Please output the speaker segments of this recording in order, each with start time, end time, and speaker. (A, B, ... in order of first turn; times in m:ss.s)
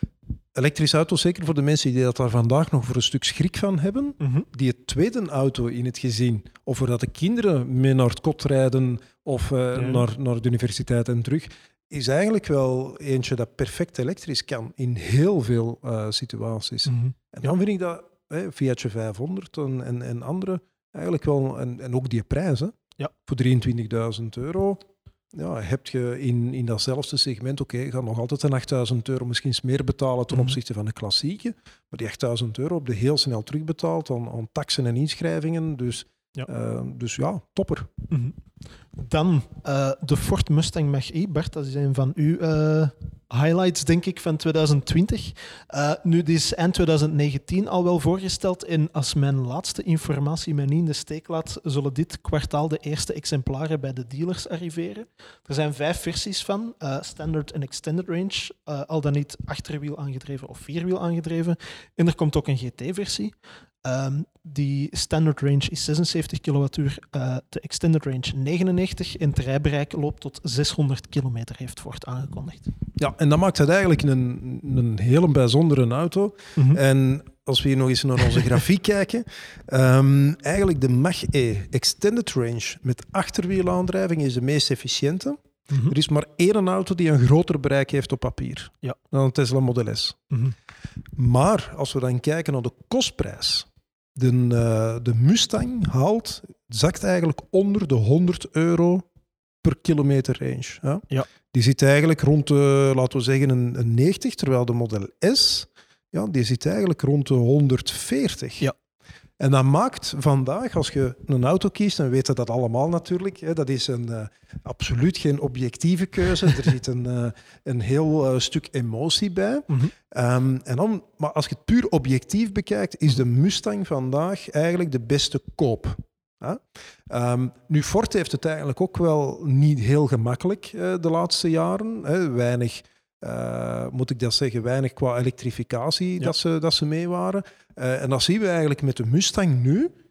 0:00.5-0:24.8 A
0:04.2-0:04.5 B
0:09.8-0:10.0 B
0:16.9-0:17.5 B
0:25.3-0:37.9 A
0:30.3-0:30.6 B
0:38.1-0:38.4 B
0:39.0-1:12.7 B
1:13.0-1:30.2 A
1:25.7-1:26.0 B
1:31.2-1:39.1 A
1:39.6-1:48.7 A
1:49.4-2:19.9 A